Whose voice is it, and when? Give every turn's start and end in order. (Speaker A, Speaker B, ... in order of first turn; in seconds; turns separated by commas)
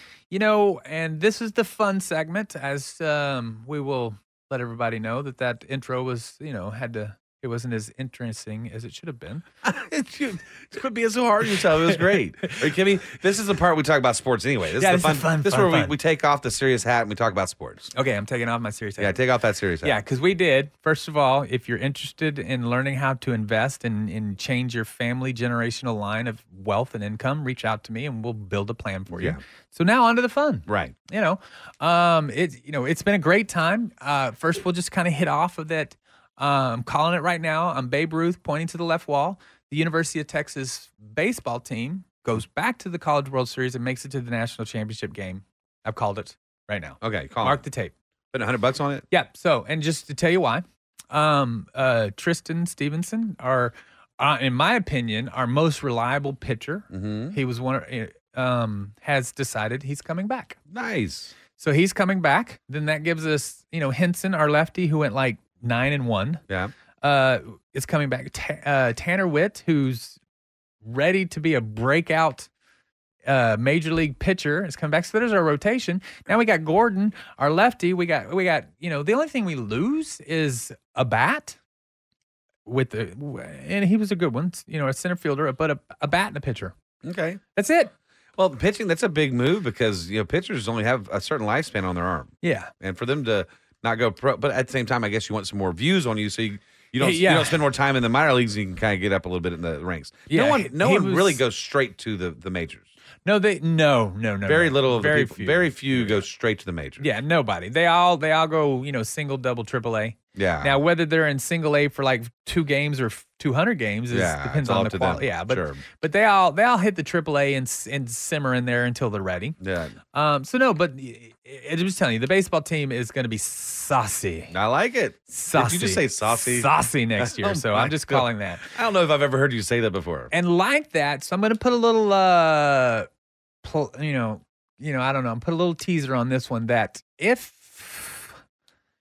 Speaker A: 0.3-9.4, Speaker B: 9.6-17.9, Speaker A: 14.8-15.9, Speaker A: 17.9-19.2, Speaker B: 19.0-20.0, Speaker A: 19.8-47.9, Speaker B: 29.1-29.4, Speaker B: 30.7-30.9, Speaker B: 47.0-47.6, Speaker B: 48.3-49.0, Speaker A: 49.1-60.6, Speaker B: 56.9-57.4, Speaker B: 60.7-61.3, Speaker A: 61.6-66.4, Speaker A: 67.0-70.2, Speaker A: 70.8-72.5, Speaker A: 73.3-81.6, Speaker A: 82.7-86.7, Speaker B: 87.0-87.4, Speaker A: 87.5-87.9, Speaker B: 88.4-102.9, Speaker A: 92.4-92.7, Speaker A: 97.0-97.6, Speaker A: 100.3-101.4, Speaker A: 103.2-106.2, Speaker B: 104.5-107.1, Speaker A: 107.0-119.6, Speaker B: 110.3-110.8, Speaker B: 114.1-115.8, Speaker B: 119.6-120.0, Speaker A: 120.1-124.5, Speaker B: 124.5-130.3, Speaker A: 125.3-128.7, Speaker A: 130.3-133.1, Speaker A: 133.6-138.4